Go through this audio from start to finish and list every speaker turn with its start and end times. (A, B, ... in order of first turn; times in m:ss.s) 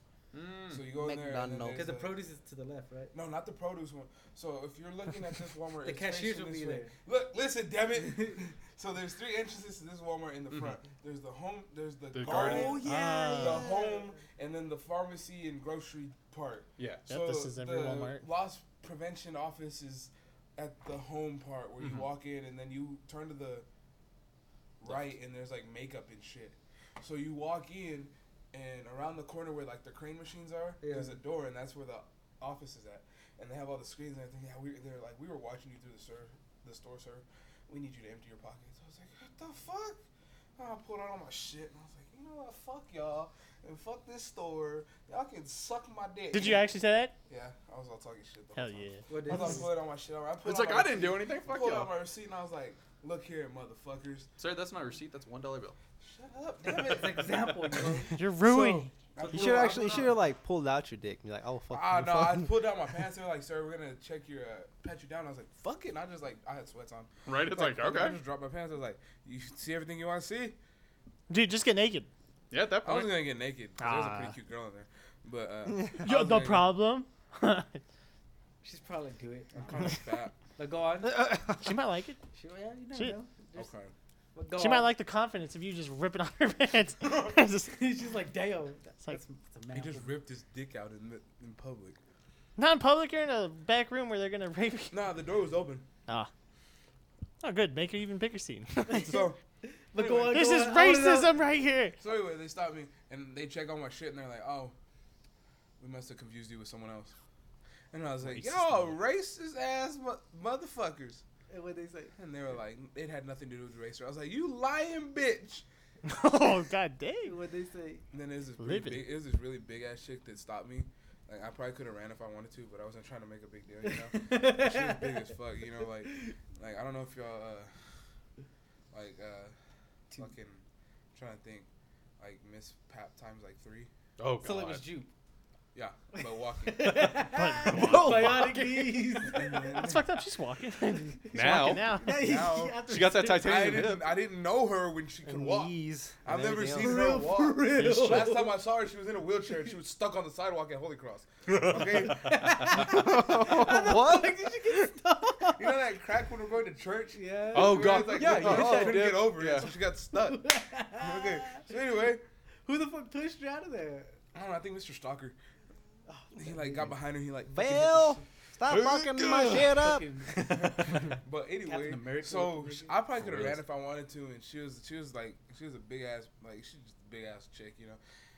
0:00.3-0:00.8 A
0:00.7-0:02.2 B
0:00.9-0:01.9 C
0:01.7-0:03.1 D
0:03.1-0:23.7 B
0:05.8-0:06.9 D
0:08.0-0:08.4 D
0:12.1-0:12.8 A
0:12.2-0:14.1 D
0:12.8-0:13.7 E
0:16.8-0:17.1 A
0:17.1-0:18.3 E
0:21.8-0:22.1 A
0:24.8-0:40.0 B
0:24.8-0:25.2 A
0:30.8-0:31.2 D
0:40.6-0:46.7 B
0:46.3-0:47.2 E
0:47.3-0:54.3 B
0:48.6-0:49.6 E
0:49.1-0:49.8 D
0:50.4-0:52.0 A
0:54.4-0:55.8 A
0:56.0-1:00.2 B
0:56.6-0:58.2 D
0:58.1-0:58.9 E
0:59.2-1:00.1 D
0:59.3-1:02.7 C
1:01.7-1:10.6 B
1:07.3-1:08.2 A
1:11.3-1:12.1 E
1:12.5-1:13.3 A
1:12.8-1:16.7 B
1:13.8-1:14.4 E
1:16.0-1:17.8 E
1:18.6-1:21.4 D
1:19.5-1:20.4 B
1:21.5-1:22.2 E
1:22.3-1:23.7 D
1:23.6-1:23.9 B
1:24.3-1:24.9 D
1:24.6-1:27.8 E
1:27.0-1:30.1 D
1:29.7-1:32.0 B
1:32.6-1:35.0 E
1:34.9-1:35.9 B
1:37.4-1:39.3 E
1:38.9-1:41.3 D
1:39.0-1:39.4 B
1:40.0-1:40.5 B
1:40.3-1:42.0 E
1:42.0-1:44.7 B
1:45.8-1:47.2 B
1:47.9-1:51.2 B
1:48.3-1:48.9 E
1:51.5-1:52.2 D
1:52.2-1:55.6 B
1:56.0-1:57.4 E
1:57.2-1:58.1 D
1:58.1-2:07.7 B
1:58.6-1:59.0 E
2:03.8-2:05.3 D
2:06.0-2:06.4 D
2:08.9-2:09.5 B
2:10.1-2:11.7 B
2:12.2-2:13.9 B
2:14.2-2:14.9 A
2:14.4-2:15.1 D
2:15.7-2:17.1 B
2:16.2-2:20.0 D
2:17.2-2:18.4 E
2:17.6-2:18.9 A
2:19.2-2:20.1 B
2:19.7-2:22.1 E
2:21.1-2:23.7 D
2:21.3-2:22.2 A
2:22.0-2:22.8 B
2:22.8-2:24.2 A
2:23.4-2:25.7 B
2:25.2-2:27.2 C
2:26.2-2:32.6 B
2:26.7-2:28.6 D
2:31.5-2:32.3 A
2:31.9-2:35.8 D
2:32.8-2:34.9 C
2:35.4-2:42.2 B
2:37.1-2:39.2 D
2:37.5-2:39.8 A
2:40.1-2:41.8 D
2:42.6-2:44.2 D
2:44.3-2:45.4 B
2:46.1-2:47.0 D
2:46.4-2:48.2 B
2:47.5-2:50.1 C
2:48.6-2:49.8 A
2:49.6-2:53.1 D
2:50.6-2:58.0 B
2:53.2-2:53.6 A